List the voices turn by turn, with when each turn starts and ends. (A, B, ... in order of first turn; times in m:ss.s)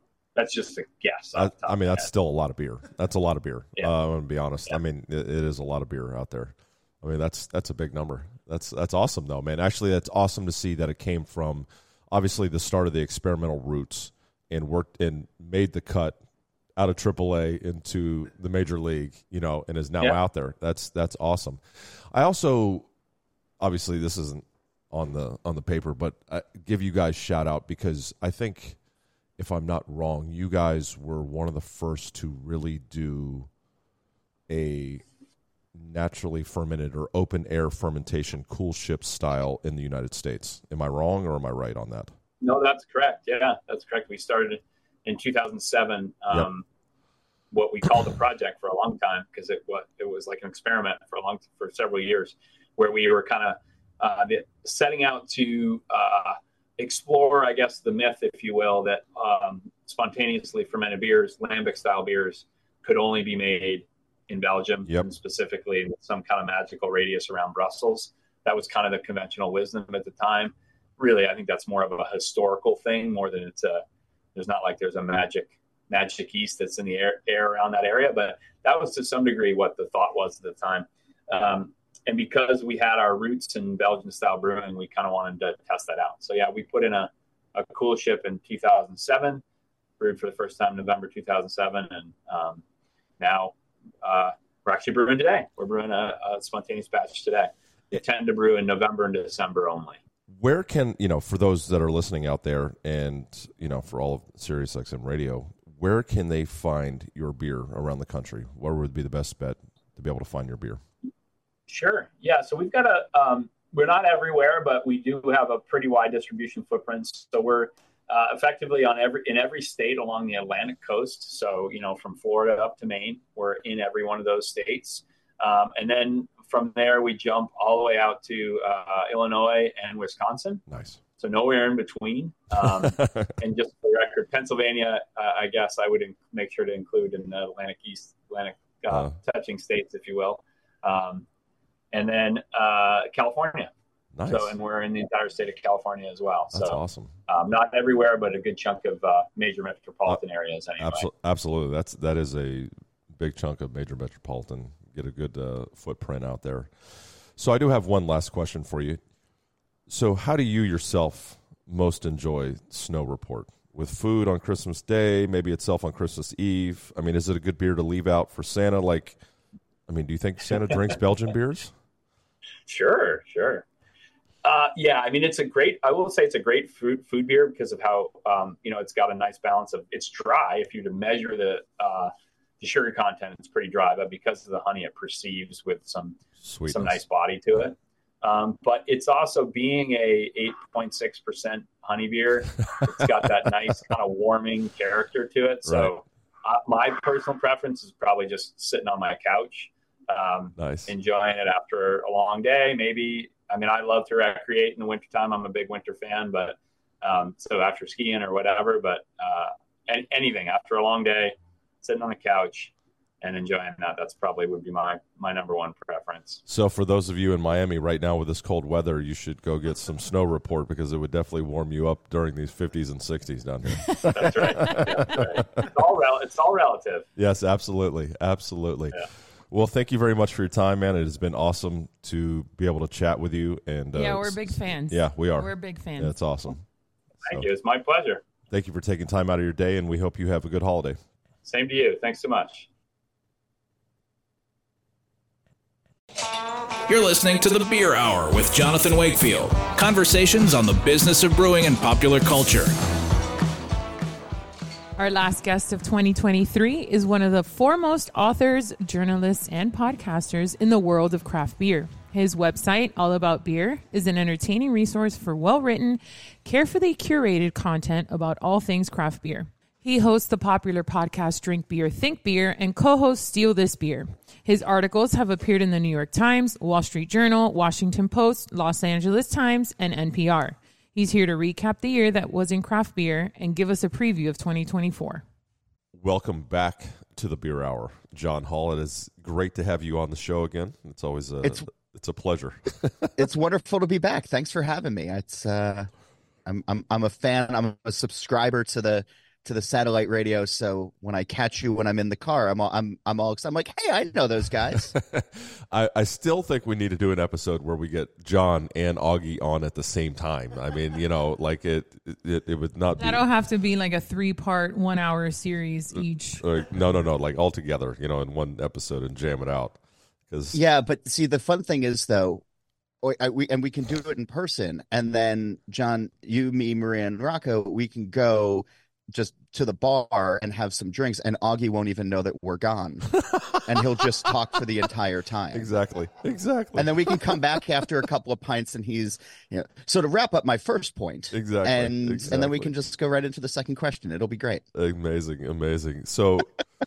0:00.3-0:02.1 A
0:01.3-0:16.2 B
0:16.8-0:22.9 B
0:23.6-0:28.8 B
0:29.4-0:33.5 B
0:34.5-0:35.0 B
0:35.7-0:42.1 B
0:42.4-0:46.6 A
0:47.5-1:13.8 A
1:14.3-1:29.4 A
1:30.0-1:32.6 A
1:33.2-1:40.0 A
1:40.3-1:50.8 B
1:51.7-2:10.6 A
2:10.7-2:11.0 B
2:11.2-2:21.2 A
2:12.6-2:13.3 B
2:21.9-2:23.7 A
2:24.1-2:24.5 B
2:24.2-2:31.1 A
2:26.5-2:27.1 B
2:30.8-2:39.0 B
2:39.9-2:49.2 B
2:49.9-2:51.7 B
2:52.7-2:53.6 A
2:54.4-3:36.4 A
3:06.4-3:07.0 B
3:20.6-3:20.9 B
3:36.5-3:45.6 B
3:44.1-3:47.1 A
3:47.2-3:56.6 B
3:53.9-3:56.1 C
3:57.2-3:58.2 A
3:58.5-4:01.0 B
4:01.4-4:02.7 A
4:06.9-4:12.7 D
4:15.0-4:45.2 C
4:45.9-4:53.3 B
4:53.2-4:55.9 E
4:56.4-5:04.9 E
5:04.9-5:13.2 B
5:13.0-5:16.4 C
5:15.9-5:20.6 B
5:20.5-5:22.4 E
5:23.0-5:33.1 E
5:33.2-5:34.0 B
5:33.7-5:35.7 E
5:35.5-5:37.4 B
5:36.7-5:44.6 E
5:41.3-5:42.7 B
5:44.7-5:46.5 B